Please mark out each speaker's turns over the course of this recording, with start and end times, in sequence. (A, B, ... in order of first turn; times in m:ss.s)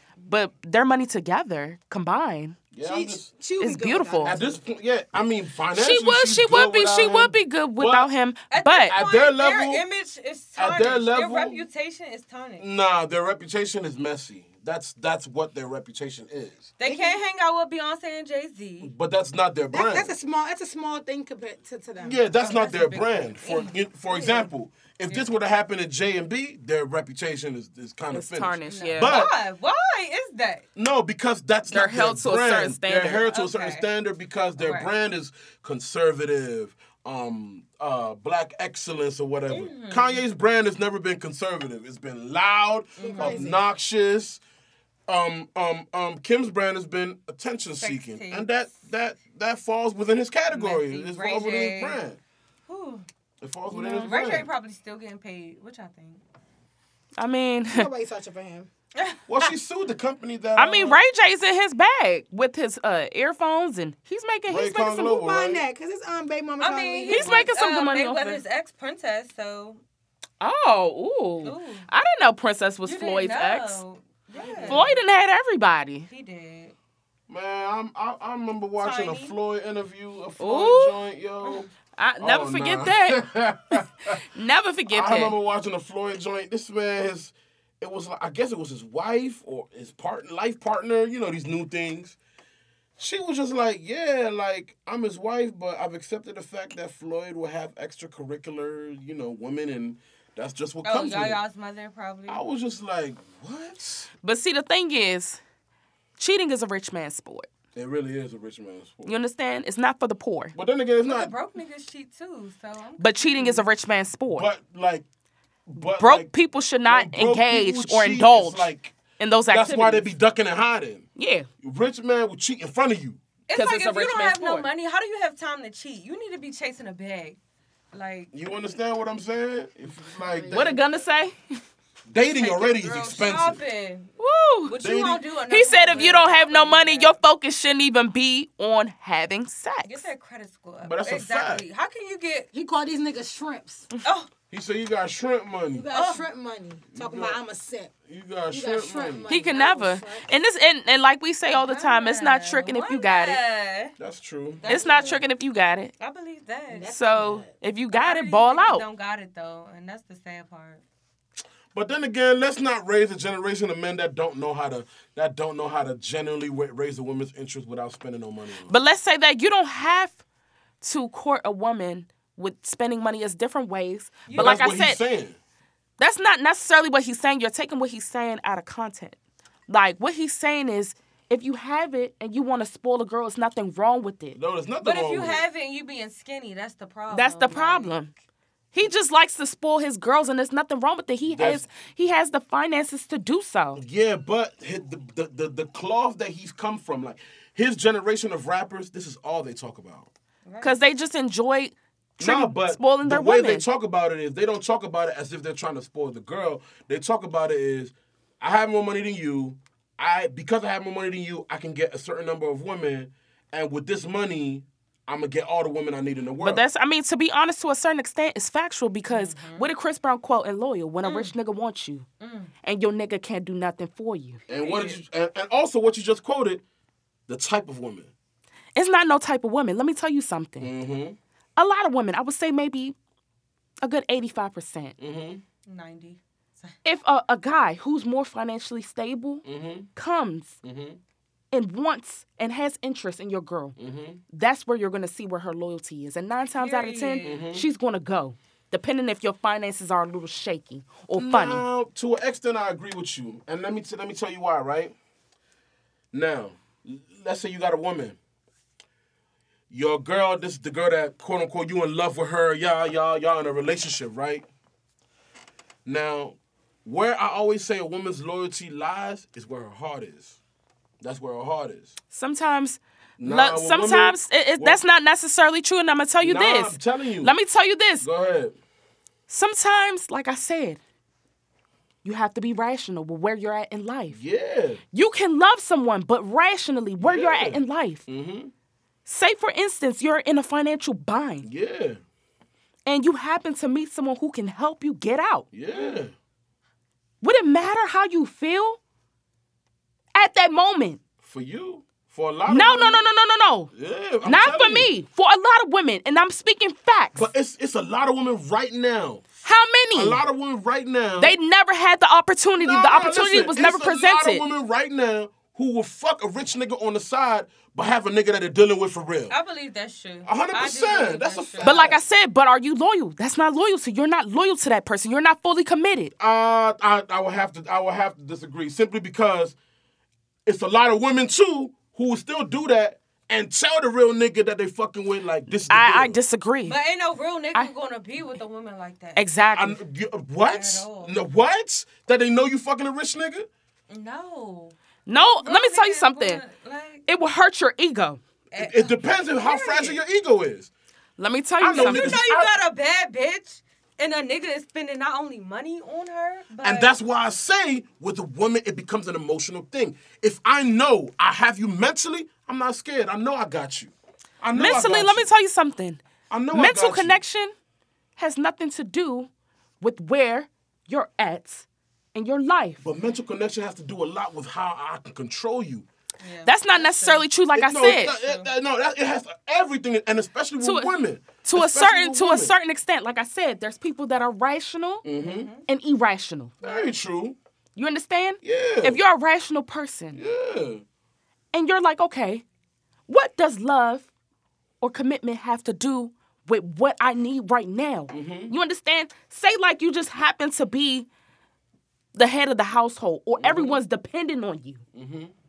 0:00.2-0:02.6 A
0:02.7-0:03.3 B
0:02.8-0:04.6 C
0:03.6-0:04.4 A
0:04.2-0:08.1 B
0:05.7-0:09.0 A
0:08.5-0:12.7 D
0:08.9-0:09.8 B
0:10.6-0:11.6 B
0:12.6-0:16.7 B
0:16.8-0:18.9 D
0:16.8-0:17.2 C
0:18.8-0:20.1 B
0:19.7-0:22.2 C
0:22.0-0:29.3 B
0:22.4-0:24.5 D
0:28.1-0:29.2 A
0:28.7-0:30.6 D
0:30.8-0:44.4 B
0:31.7-0:33.2 A
0:33.2-0:33.9 D
0:34.6-0:34.9 D
0:39.5-0:40.2 D
0:43.0-0:43.5 D
0:43.0-0:43.6 C
0:45.1-0:52.2 B
0:47.8-0:48.5 D
0:50.5-0:52.0 D
0:52.7-0:53.0 D
0:53.4-0:54.5 B
0:53.7-0:54.1 A
0:54.0-0:56.2 D
0:57.2-0:57.9 A
0:57.7-0:58.7 C
0:58.9-0:59.5 D
0:59.3-1:01.0 B
1:00.6-1:05.0 A
1:04.5-1:05.6 B
1:04.8-1:07.4 C
1:06.6-1:09.8 D
1:07.1-1:08.4 A
1:10.4-1:13.8 A
1:11.4-1:11.8 D
1:12.8-1:15.0 D
1:14.4-1:14.8 C
1:14.4-1:14.9 B
1:14.6-1:16.1 A
1:16.1-1:16.7 D
1:17.3-1:24.2 B
1:18.8-1:19.3 D
1:20.4-1:21.0 A
1:22.0-1:23.3 A
1:24.1-1:25.4 A
1:24.9-1:32.2 B
1:33.0-1:41.4 B
1:40.8-1:42.4 D
1:42.3-1:44.1 B
1:44.2-1:45.4 A
1:46.2-1:47.5 A
1:47.7-1:49.1 B
1:49.0-1:50.5 A
1:50.5-1:51.3 B
1:51.0-1:53.7 D
1:53.0-1:54.5 A
1:54.3-1:55.0 B
1:55.7-1:56.3 B
1:55.8-2:00.1 A
1:56.8-1:59.0 B
1:59.5-2:01.0 B
2:01.2-2:01.5 A
2:01.6-2:03.2 B
2:03.5-2:07.4 D
2:03.5-2:04.7 A
2:07.9-2:08.3 D
2:08.3-2:10.8 B
2:10.0-2:10.8 C
2:10.5-2:11.6 A
2:12.1-2:13.6 B
2:12.3-2:14.1 D
2:14.2-2:14.8 A
2:14.6-2:17.2 D
2:14.8-2:15.2 B
2:15.5-2:20.1 A
2:19.8-2:22.5 D
2:20.8-2:21.6 B
2:22.5-2:23.9 C
2:24.0-2:24.3 D
2:24.5-2:25.9 B
2:25.7-2:27.9 C
2:25.9-2:26.2 D
2:26.9-2:27.4 B
2:28.1-2:29.3 B
2:28.5-2:30.4 C
2:29.3-2:33.4 A
2:31.5-2:34.0 D
2:34.0-2:34.7 B
2:34.6-2:35.2 D
2:34.6-2:35.9 A
2:36.0-2:36.9 D
2:36.7-2:37.5 C
2:36.9-2:38.8 A
2:37.9-2:40.8 D
2:41.7-2:48.7 B
2:48.7-2:50.2 A
2:50.8-2:55.0 A
2:54.3-2:54.8 D
2:54.3-2:55.4 B
2:56.0-2:59.2 A
2:59.7-3:04.4 A
3:04.3-3:05.4 B
3:04.8-3:07.9 D
3:07.1-3:08.1 A
3:08.7-3:13.8 A
3:11.3-3:11.6 B
3:13.8-3:20.1 B
3:20.4-3:20.7 D
3:20.6-3:23.6 A
3:22.2-3:36.6 B
3:36.4-3:42.0 A
3:39.1-3:39.7 D
3:41.0-3:41.3 D
3:42.2-3:42.5 D
3:42.6-3:44.4 A
3:44.5-3:46.6 B
3:44.5-3:45.0 D
3:47.3-3:48.1 B
3:48.7-3:50.7 A
3:50.6-3:51.2 B
3:51.6-3:52.9 A
3:53.8-3:54.9 A
3:55.0-3:55.4 B
3:55.6-3:56.8 D
3:56.8-4:00.6 A
3:59.4-3:59.9 B
4:00.6-4:01.0 B
4:01.5-4:03.8 A
4:03.8-4:04.2 B
4:04.3-4:11.6 A
4:06.6-4:07.5 D
4:07.2-4:07.6 B
4:11.2-4:14.9 B
4:16.1-4:18.2 B
4:19.7-4:24.4 B
4:25.8-4:30.4 B
4:31.0-4:32.0 B
4:32.1-4:38.1 A
4:33.2-4:34.8 B
4:36.2-4:37.3 B
4:38.0-4:38.5 B
4:39.3-4:40.8 A
4:42.0-4:44.2 A
4:44.1-4:44.8 B
4:44.9-4:48.0 A
4:47.0-4:48.5 B
4:49.0-4:51.5 A
4:51.4-4:52.0 B
4:52.8-4:55.5 A
4:55.5-4:56.1 B
4:57.2-4:58.8 A
5:00.1-5:01.0 A
5:01.2-5:03.0 B
5:02.5-5:03.7 A
5:03.7-5:04.9 B
5:04.2-5:07.3 A
5:07.1-5:09.2 B
5:09.4-5:10.2 A
5:09.9-5:11.4 B
5:11.2-5:14.4 A
5:12.6-5:19.3 B
5:19.3-5:21.9 D
5:20.2-5:22.0 B
5:21.6-5:26.1 A
5:26.2-5:29.6 B
5:30.4-5:36.2 B
5:35.6-5:36.8 A
5:36.6-5:39.3 D
5:39.2-5:39.8 A
5:39.5-5:43.5 B
5:40.4-5:41.2 D
5:43.9-5:47.1 D
5:45.0-5:46.4 A
5:47.1-5:48.2 A
5:48.5-5:50.0 D
5:48.6-5:50.7 B
5:51.2-5:52.2 A
5:51.6-5:52.6 B
5:51.6-5:56.9 D
5:56.6-6:05.3 B
6:04.5-6:07.5 A
6:06.3-6:07.2 B
6:08.2-6:09.3 A
6:09.8-6:12.8 A
6:12.8-6:15.8 B
6:16.2-6:17.3 D
6:16.4-6:18.1 A
6:17.5-6:22.5 B
6:17.8-6:18.5 D
6:20.6-6:25.0 A
6:25.0-6:25.5 B
6:25.2-6:25.6 D
6:25.6-6:26.5 A
6:26.6-6:26.9 D
6:26.6-6:27.4 B
6:27.8-6:30.2 A
6:28.4-6:29.0 B
6:30.1-6:30.8 B
6:31.5-6:32.4 A
6:33.1-6:34.1 A
6:34.8-6:41.1 A
6:38.1-6:38.5 B
6:42.1-6:44.8 A
6:43.4-6:43.8 B
6:44.9-6:45.3 B